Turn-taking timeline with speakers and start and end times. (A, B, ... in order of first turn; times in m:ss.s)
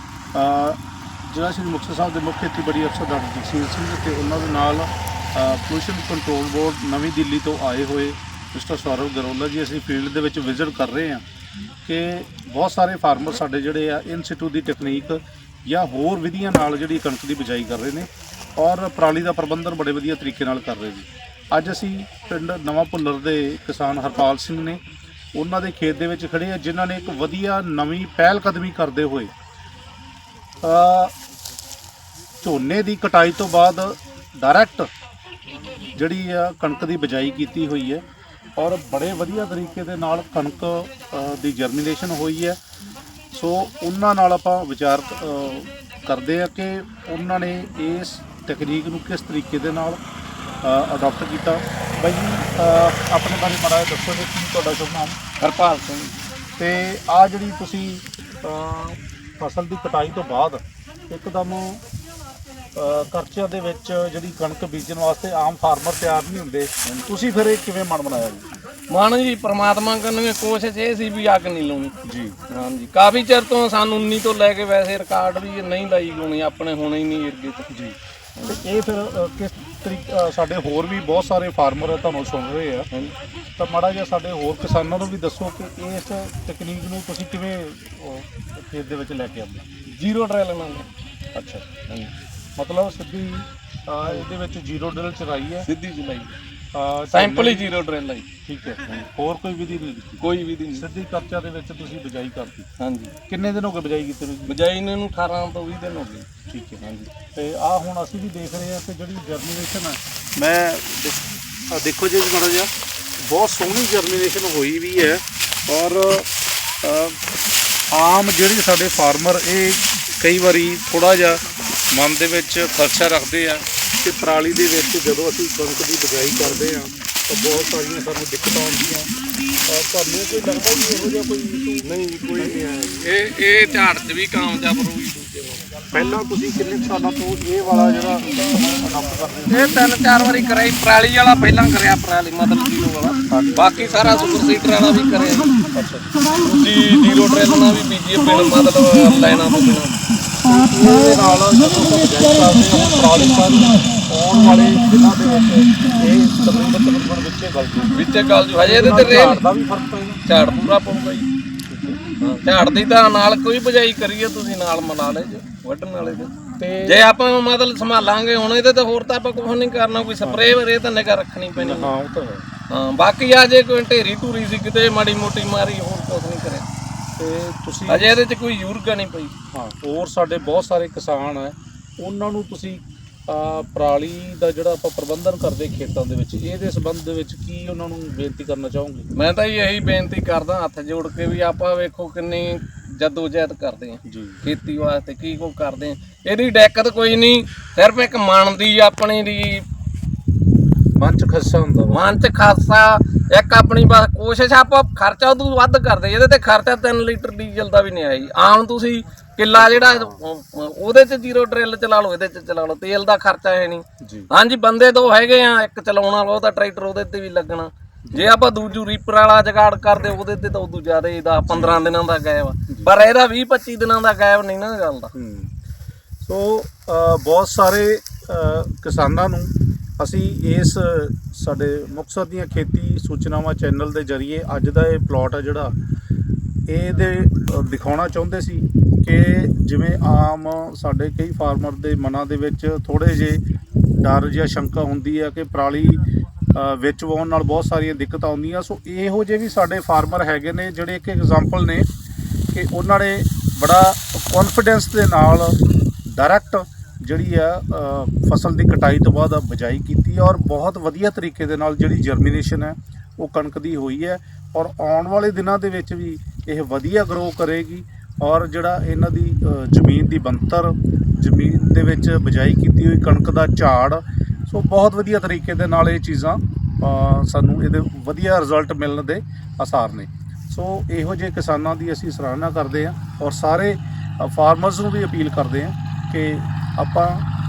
0:00.3-0:11.2 A
0:11.8-0:24.8 A
0:25.3-0:29.3 A
0:30.6-0:31.1 A
0:32.4-0:34.9 A
0:35.9-0:38.0 A
0:38.6-0:42.6 A
0:43.3-0:50.0 A
0:50.6-0:55.2 A
0:55.4-0:56.1 B
0:56.6-1:01.8 A
1:02.7-1:08.5 A
1:08.9-1:11.9 B
1:12.0-1:12.4 A
1:12.5-1:17.7 B
1:17.7-1:18.0 A
1:18.5-1:22.9 A
1:23.6-1:29.6 A
1:29.9-1:30.9 B
1:31.3-1:31.6 A
1:32.6-1:35.7 A
1:35.6-1:36.3 B
1:36.7-1:37.7 A
1:37.1-1:38.3 B
1:38.4-1:42.7 A
1:40.2-1:40.8 B
1:42.8-1:43.1 B
1:43.3-1:44.6 A
1:44.5-1:46.3 B
1:46.5-1:56.3 A
1:46.8-1:47.1 B
1:56.8-1:57.2 A
1:57.9-2:01.4 A
2:01.9-2:09.1 A
2:09.6-2:12.6 A
2:11.8-2:15.7 B
2:15.9-2:19.9 A
2:19.5-2:25.5 B
2:23.3-2:24.1 A
2:25.7-2:26.1 A
2:26.4-2:30.0 B
2:30.4-2:38.0 A
2:37.9-2:39.4 B
2:38.6-2:40.2 A
2:40.2-2:41.3 B
2:41.7-2:42.0 A
2:42.2-2:46.3 B
2:46.6-2:47.0 A
2:46.8-2:51.9 B
2:51.6-2:52.4 A
2:52.7-2:56.6 B
2:57.2-2:58.2 A
2:57.9-2:59.3 B
2:59.5-3:09.1 A
3:09.1-3:19.6 B
3:14.0-3:14.4 A
3:21.0-3:22.0 A
3:21.9-3:45.1 B
3:29.5-3:30.2 A
3:34.0-3:34.3 A
3:38.1-3:38.3 A
3:41.5-3:41.8 A
3:45.1-3:45.5 A
3:46.2-3:55.7 A
3:56.7-4:03.4 A
4:04.0-4:11.8 A
4:12.5-4:47.2 A